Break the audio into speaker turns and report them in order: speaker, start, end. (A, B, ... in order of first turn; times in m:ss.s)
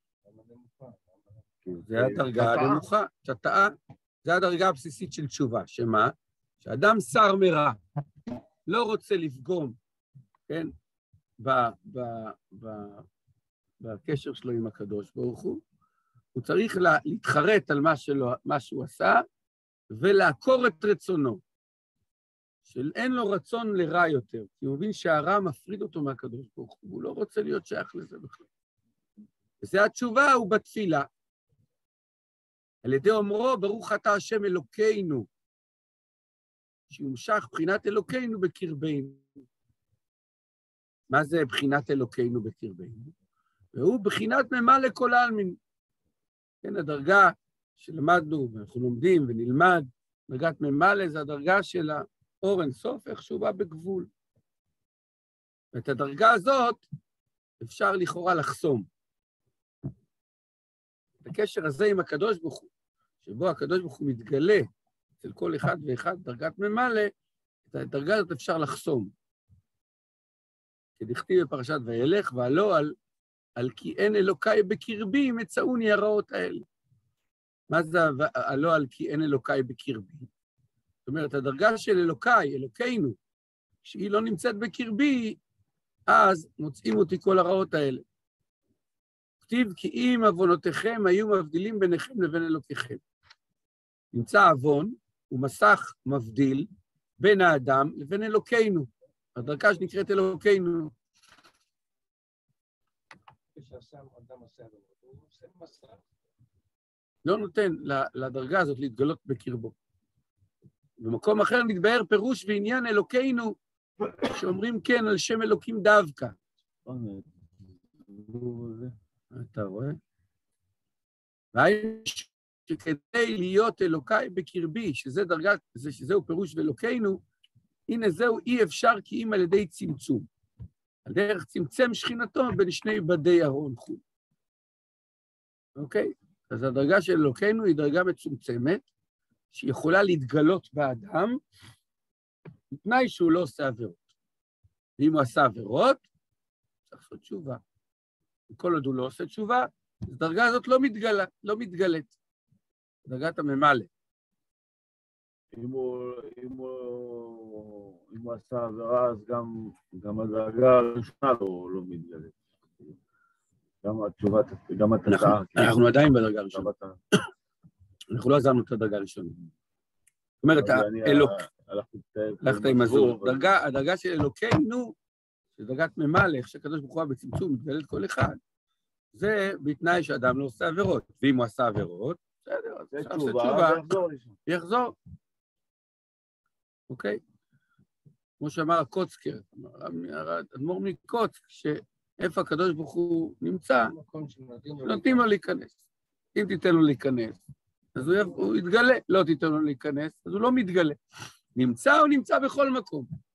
0:00.2-0:01.4 A
0:01.6-0:02.8 B
0:01.9-0:07.8 C
0:08.6-0:09.8 C
0:11.4-0:13.0 C
0:13.8-0:15.6 C
0:16.3-0:19.2 C
0:19.9-0:21.4 C
0:22.7-0:28.4 C
0:29.6-0:31.1 C
0:32.8-0:35.3 C
0:36.9-0:39.2 C
0:41.1-0:43.1 C
0:43.7-0:45.6 C
0:46.6-0:54.1 C
0:55.7-0:56.8 C
0:57.6-0:58.9 C
1:01.2-1:02.7 C
1:03.2-1:04.7 C
1:05.2-1:07.1 C
1:07.7-1:09.1 C
1:11.0-1:13.0 C
1:13.6-1:16.6 C
1:17.7-1:20.3 C
1:21.0-1:23.2 C
1:23.8-1:25.4 C
1:26.1-1:28.0 C
1:29.4-1:33.0 C
1:34.1-1:36.7 C
1:37.2-1:40.9 C
1:43.5-1:46.0 A
1:47.2-1:49.7 C
1:51.0-1:53.6 C
1:54.2-1:56.4 C
1:56.8-1:57.4 B
1:58.0-1:58.9 B
1:59.3-2:00.0 C
2:01.5-2:07.2 C
2:07.9-2:10.3 C
2:11.0-2:14.0 C
2:15.8-2:18.8 C
2:19.5-2:21.4 C
2:22.8-2:24.0 C
2:25.0-2:26.0 C
2:26.9-2:27.6 C
2:28.5-2:32.1 C
2:33.0-2:33.9 C
2:35.5-2:42.9 B
2:43.8-2:45.8 B
2:45.1-2:46.7 C
2:46.5-2:47.0 B
2:48.1-2:49.4 C
2:50.4-2:51.4 C
2:50.5-2:53.5 B
2:52.4-2:54.9 C
2:55.6-2:58.4 C
2:59.1-3:03.9 C
3:02.9-3:04.4 B
3:04.4-3:04.9 C
3:06.9-3:07.2 C
3:08.4-3:13.9 C
3:13.8-3:15.2 A
3:14.8-3:15.7 C
3:16.3-3:17.4 C
3:17.9-3:21.0 C
3:18.0-3:18.4 A
3:21.5-3:23.1 C